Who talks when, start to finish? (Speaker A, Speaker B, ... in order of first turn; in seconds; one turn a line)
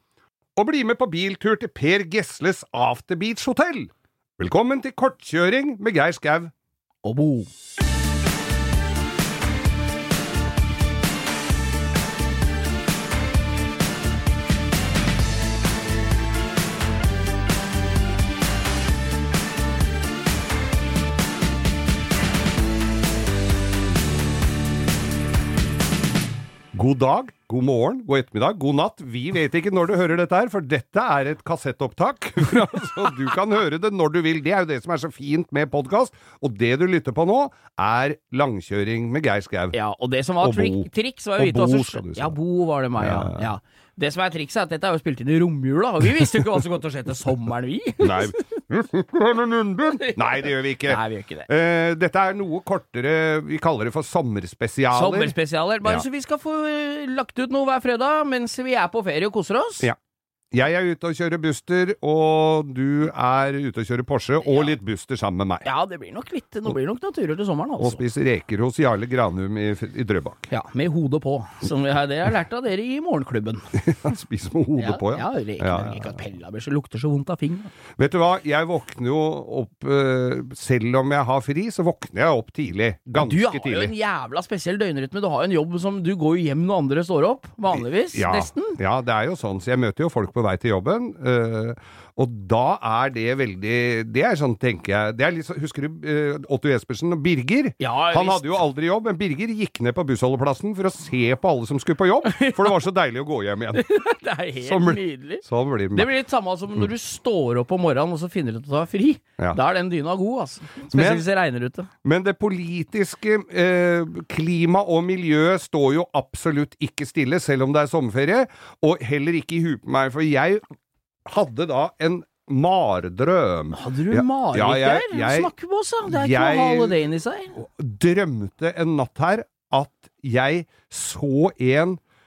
Speaker A: 0.6-6.5
Speaker B: 7.0-7.5
Speaker A: 26.7-39.8
Speaker B: 39.7-48.6
Speaker A: 40.4-42.4
Speaker A: 43.0-43.5
Speaker A: 48.0-56.1
Speaker B: 50.8-51.5
Speaker B: 54.9-59.9
Speaker A: 60.5-65.7
Speaker B: 64.4-64.7
Speaker B: 65.6-68.0
Speaker A: 67.8-70.5
Speaker B: 70.5-73.7
Speaker A: 73.7-76.2
Speaker B: 74.8-77.7
Speaker A: 78.0-83.9
Speaker B: 83.2-88.8
Speaker A: 87.7-103.8
Speaker B: 97.8-98.6
Speaker B: 102.2-102.8
Speaker B: 103.7-111.9
Speaker A: 104.6-106.1
Speaker A: 110.9-111.2
Speaker A: 112.0-120.6
Speaker A: 121.2-125.5
Speaker B: 123.7-127.5
Speaker A: 126.0-127.0
Speaker A: 127.5-132.0